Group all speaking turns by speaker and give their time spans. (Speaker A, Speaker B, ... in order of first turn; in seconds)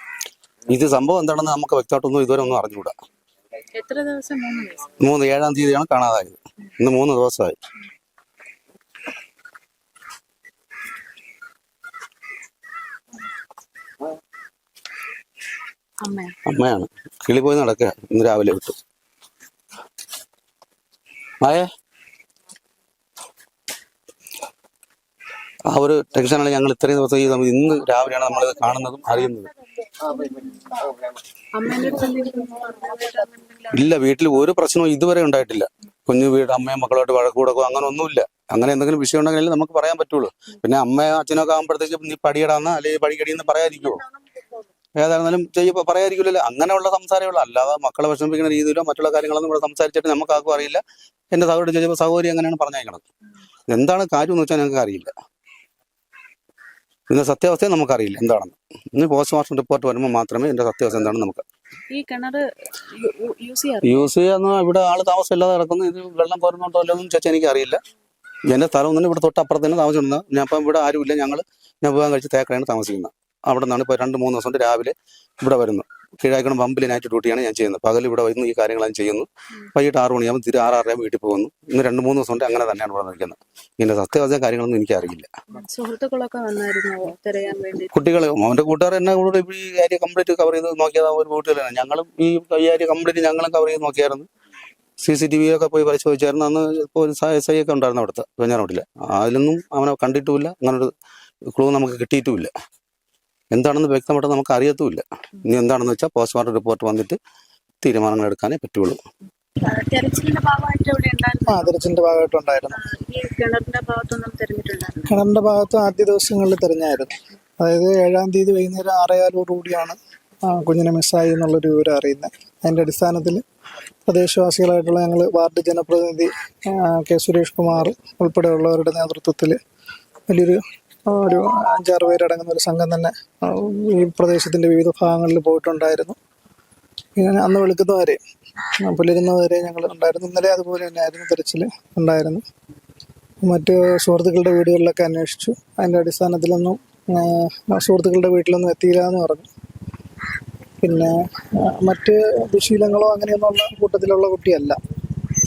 Speaker A: 0.7-2.9, 5.0-7.6, 16.5-18.8, 21.4-21.7, 25.7-29.5, 33.7-44.0, 45.0-50.8, 51.3-53.0, 53.7-55.1, 57.1-61.4, 63.8-67.8, 68.5-85.3, 87.9-94.3, 95.0-100.9, 101.5-102.5, 103.5-107.2, 107.8-109.0
Speaker B: 3.8-4.9, 16.0-16.3, 31.6-33.9, 61.9-62.4, 62.9-64.1, 85.6-88.0, 109.7-111.7, 112.8-115.1
Speaker C: 111.5-112.8, 115.1-123.4, 124.0-129.6, 130.3-136.2, 137.2-138.2, 138.8-142.4, 143.4-149.5, 150.8-154.8